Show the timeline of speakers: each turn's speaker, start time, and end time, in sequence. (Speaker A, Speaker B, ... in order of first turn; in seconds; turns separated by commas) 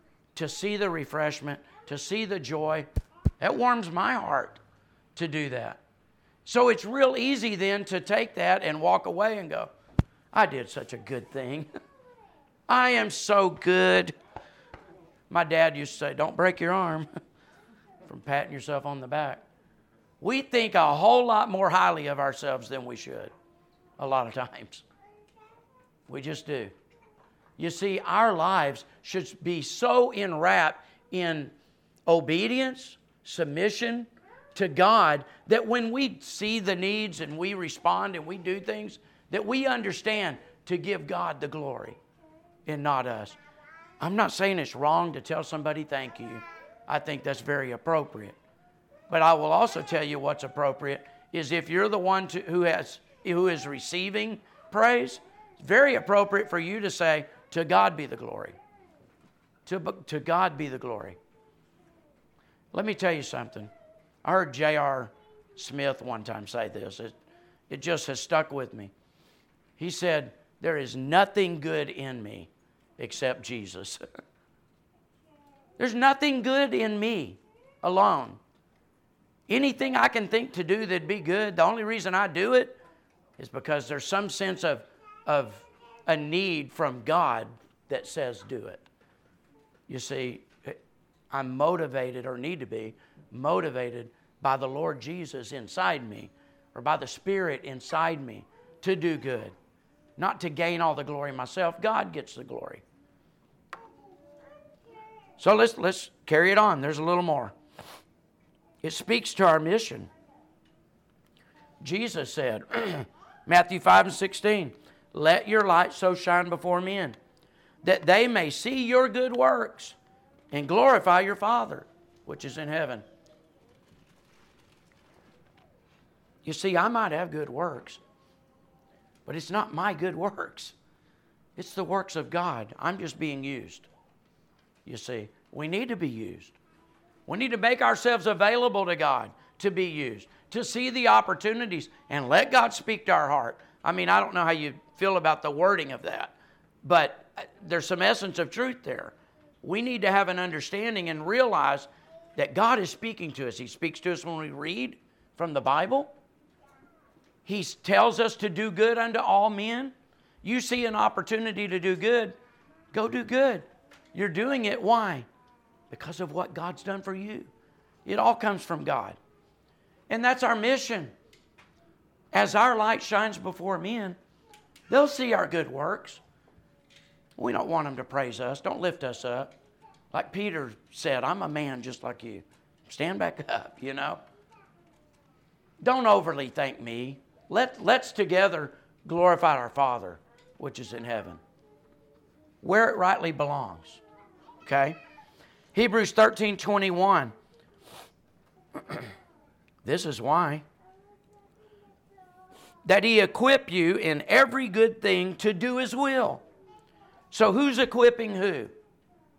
Speaker A: 0.3-2.9, Speaker A: 3.4-4.6, Speaker A: 5.2-5.8, Speaker A: 6.4-9.7, Speaker A: 10.3-11.7, Speaker A: 12.7-14.1, Speaker A: 15.3-17.1, Speaker A: 18.1-19.4, Speaker A: 20.2-23.3, Speaker A: 24.0-24.8, Speaker A: 26.1-26.7, Speaker A: 27.6-31.5, Speaker A: 32.1-42.0, Speaker A: 42.6-43.4, Speaker A: 44.0-48.4, Speaker A: 49.1-58.5, Speaker A: 59.6-61.2, Speaker A: 62.7-63.7, Speaker A: 64.2-67.1, Speaker A: 67.7-68.9, Speaker A: 69.8-74.0, Speaker A: 75.8-78.4, Speaker A: 79.5-82.8, Speaker A: 83.4-88.8, Speaker A: 89.9-90.8, Speaker A: 91.3-99.5, Speaker A: 100.2-102.8, Speaker A: 105.4-107.5, Speaker A: 108.8-110.1, Speaker A: 111.8-117.2, Speaker A: 117.8-120.0, Speaker A: 120.5-123.0, Speaker A: 126.4-128.0, Speaker A: 129.2-130.7, Speaker A: 131.6-133.9, Speaker A: 134.8-136.5, Speaker A: 137.3-156.1, Speaker A: 157.4-162.3, Speaker A: 162.9-165.2, Speaker A: 165.9-167.5, Speaker A: 168.0-169.2, Speaker A: 170.1-171.1, Speaker A: 172.3-174.2, Speaker A: 174.9-176.2, Speaker A: 177.4-179.5, Speaker A: 180.1-184.2, Speaker A: 185.8-191.4, Speaker A: 192.6-194.0, Speaker A: 194.6-195.0, Speaker A: 195.7-197.3, Speaker A: 199.8-200.6, Speaker A: 202.8-206.4, Speaker A: 207.3-208.7